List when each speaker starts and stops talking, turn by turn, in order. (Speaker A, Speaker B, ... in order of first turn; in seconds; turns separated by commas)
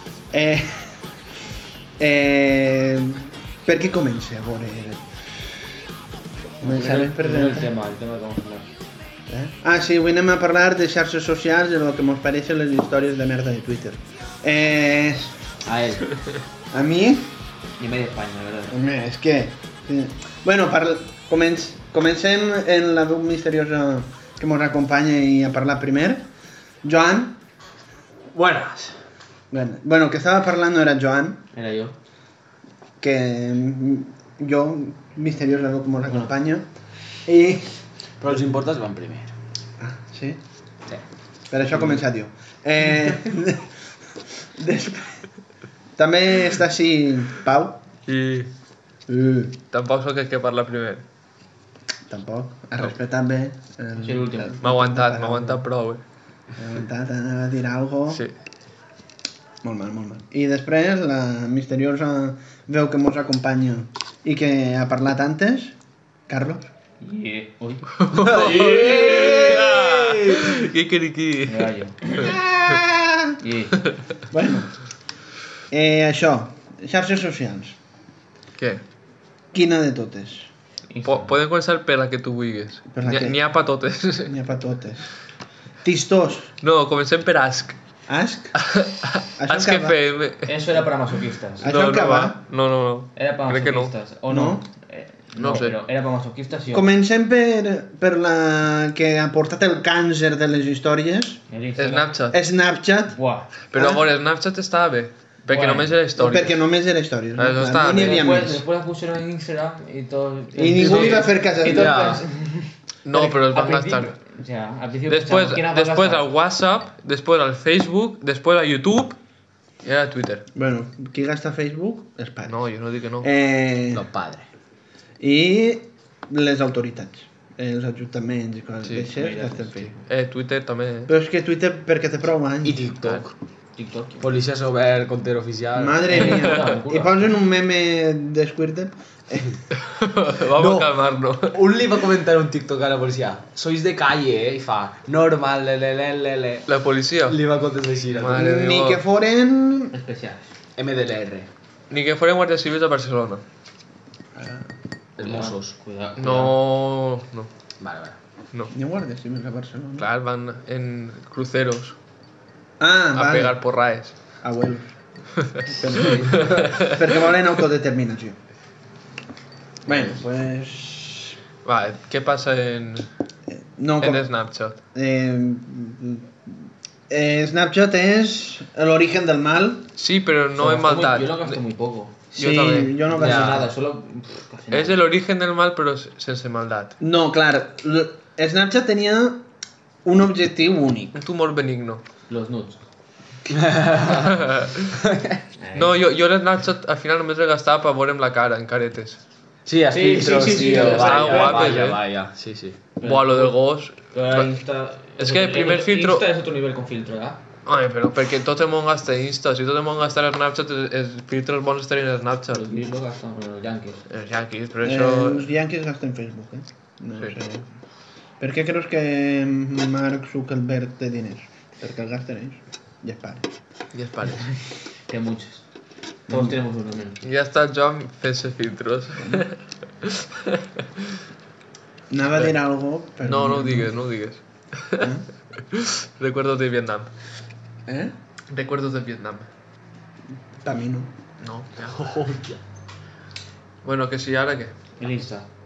Speaker A: 0.3-0.9, Speaker A: 2.0-5.0, Speaker A: 6.6-7.7, Speaker B: 6.6-8.7, Speaker C: 6.8-7.6, Speaker A: 9.3-15.3, Speaker B: 15.6-16.1, Speaker A: 16.7-17.3, Speaker B: 17.8-18.8, Speaker A: 18.7-26.3, Speaker A: 26.8-27.4, Speaker C: 28.3-28.9, Speaker A: 29.5-31.4, Speaker B: 31.5-31.9, Speaker A: 33.0-36.7, Speaker A: 37.2-37.8, Speaker C: 38.2-39.3, Speaker A: 39.8-40.4, Speaker A: 41.5-43.7, Speaker A: 44.4-45.2, Speaker A: 46.0-47.8, Speaker D: 48.1-48.5, Speaker A: 49.1-49.6, Speaker D: 49.7-51.0, Speaker A: 52.1-55.6, Speaker B: 54.0-54.6, Speaker D: 54.6-56.0, Speaker A: 56.6-58.2, Speaker A: 59.6-65.7, Speaker A: 66.3-66.7, Speaker B: 67.0-68.3, Speaker D: 68.0-71.7, Speaker C: 68.1-70.5, Speaker B: 71.5-72.4, Speaker A: 72.2-73.4, Speaker B: 73.4-73.8, Speaker A: 74.3-74.7, Speaker A: 75.7-77.8, Speaker A: 79.5-80.5, Speaker B: 80.9-81.3, Speaker D: 81.0-84.3, Speaker A: 82.9-83.4, Speaker A: 84.2-85.1, Speaker A: 85.8-86.5, Speaker D: 86.6-87.7, Speaker A: 88.1-88.5, Speaker D: 88.6-90.5, Speaker A: 89.4-90.0, Speaker B: 90.5-91.7, Speaker A: 91.6-92.4, Speaker D: 91.6-93.9, Speaker B: 93.1-96.9, Speaker A: 94.3-94.6, Speaker D: 95.4-95.8, Speaker A: 96.7-101.4, Speaker B: 101.5-102.1, Speaker D: 101.8-102.4, Speaker A: 102.3-103.2, Speaker B: 103.1-103.5, Speaker D: 103.7-106.6, Speaker A: 103.7-104.0, Speaker B: 105.5-105.9, Speaker A: 106.2-108.6, Speaker D: 107.4-108.2, Speaker B: 107.8-116.2, Speaker A: 110.5-112.1, Speaker D: 110.7-111.2, Speaker C: 111.7-112.2, Speaker D: 113.0-114.1, Speaker D: 115.1-119.2, Speaker D: 119.8-120.4, Speaker A: 120.5-122.5, Speaker D: 122.5-123.3, Speaker A: 123.2-124.0, Speaker C: 123.9-124.5, Speaker A: 125.2-129.9, Speaker B: 129.1-130.0, Speaker D: 130.1-131.1, Speaker A: 131.1-132.8, Speaker C: 132.6-133.3, Speaker B: 133.8-134.3, Speaker C: 134.2-136.2, Speaker A: 135.7-139.6, Speaker B: 136.1-137.3, Speaker D: 136.2-136.6, Speaker D: 139.8-141.6, Speaker C: 140.6-140.9, Speaker C: 141.5-146.7, Speaker D: 146.7-147.4, Speaker C: 147.3-148.4, Speaker D: 148.1-149.0, Speaker A: 148.3-149.9, Speaker B: 149.9-150.5, Speaker C: 150.8-151.5, Speaker D: 151.9-153.4, Speaker A: 154.3-154.7, Speaker C: 155.2-155.7, Speaker B: 155.2-156.6, Speaker D: 156.2-157.5, Speaker C: 157.8-158.2, Speaker A: 158.7-160.1, Speaker D: 160.0-161.9, Speaker A: 162.8-163.6, Speaker D: 163.1-164.2, Speaker A: 164.4-164.9, Speaker D: 165.4-167.1, Speaker A: 165.7-168.4, Speaker A: 169.8-171.4, Speaker D: 171.6-173.1, Speaker A: 173.5-174.3, Speaker D: 174.0-174.8, Speaker A: 174.9-176.6, Speaker A: 177.1-179.8, Speaker D: 180.0-181.6, Speaker B: 180.6-182.2, Speaker D: 182.3-183.0, Speaker A: 182.4-183.7, Speaker B: 183.1-185.0, Speaker C: 183.2-183.6, Speaker D: 184.7-186.9, Speaker A: 187.0-189.4, Speaker A: 190.0-191.2, Speaker D: 191.1-192.0, Speaker B: 192.3-192.8, Speaker C: 193.5-195.4, Speaker D: 194.1-194.9, Speaker B: 195.6-196.0, Speaker D: 195.7-199.2, Speaker C: 199.7-202.8, Speaker B: 199.9-201.8, Speaker D: 200.6-202.0, Speaker B: 203.0-203.6, Speaker D: 203.0-204.5, Speaker B: 204.1-207.4, Speaker D: 205.2-206.2, Speaker D: 207.7-212.7, Speaker B: 212.5-214.0, Speaker D: 214.1-215.5, Speaker A: 214.8-217.6, Speaker A: 218.4-223.5, Speaker D: 223.9-224.4, Speaker B: 225.1-225.6, Speaker B: 226.3-227.2, Speaker D: 227.2-231.1, Speaker A: 232.1-233.9, Speaker D: 233.2-235.1, Speaker A: 235.0-235.2, Speaker D: 235.7-237.1, Speaker A: 237.8-238.1, Speaker D: 238.5-239.5, Speaker A: 240.6-241.1, Speaker D: 241.4-242.1, Speaker C: 241.9-242.6, Speaker D: 243.8-244.7, Speaker B: 245.0-245.5